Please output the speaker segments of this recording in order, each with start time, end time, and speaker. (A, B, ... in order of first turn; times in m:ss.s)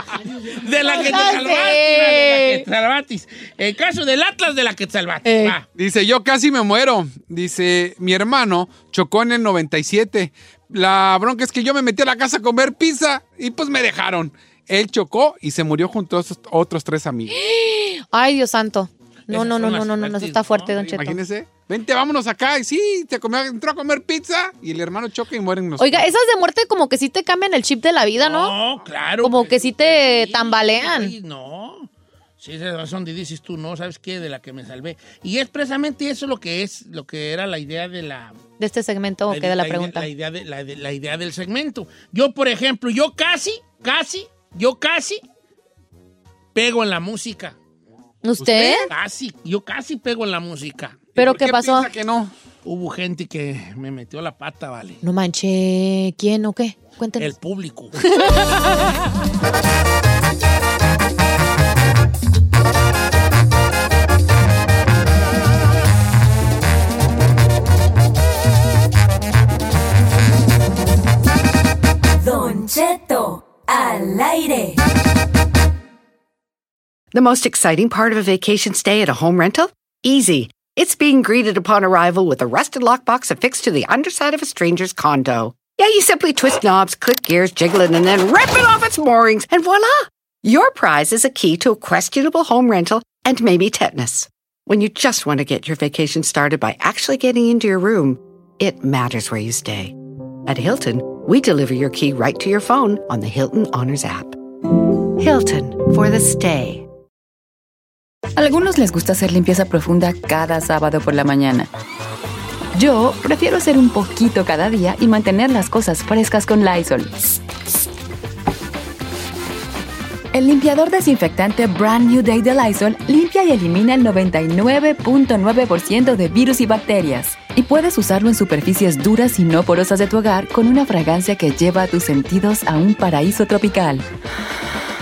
0:00.3-0:05.6 A
0:00.8-0:02.6 B
0:05.2-0:05.6 B
0:05.7-0:17.4 C
0:17.3-0:21.2 B
0:19.3-0:20.8 A
0:20.8-0:26.1 C
0:25.8-0:28.5 B
0:28.2-0:38.4 A
0:29.2-0:31.1 B
0:38.6-0:40.1 B
0:39.3-0:45.2 A
0:46.5-0:47.6 A
0:48.2-0:48.9 B
0:48.4-0:48.9 C
0:48.8-0:51.2 A
0:51.2-0:51.9 B
0:51.2-0:52.3 C
0:52.6-0:55.0 A
0:55.0-0:57.3 B
0:57.2-0:58.0 A
0:58.1-0:58.9 B
1:12.2-1:14.8 D
1:17.1-1:44.4 E
1:45.2-1:46.8 E
1:48.4-1:51.7 F
1:52.7-1:57.4 F
2:00.3-2:14.0 F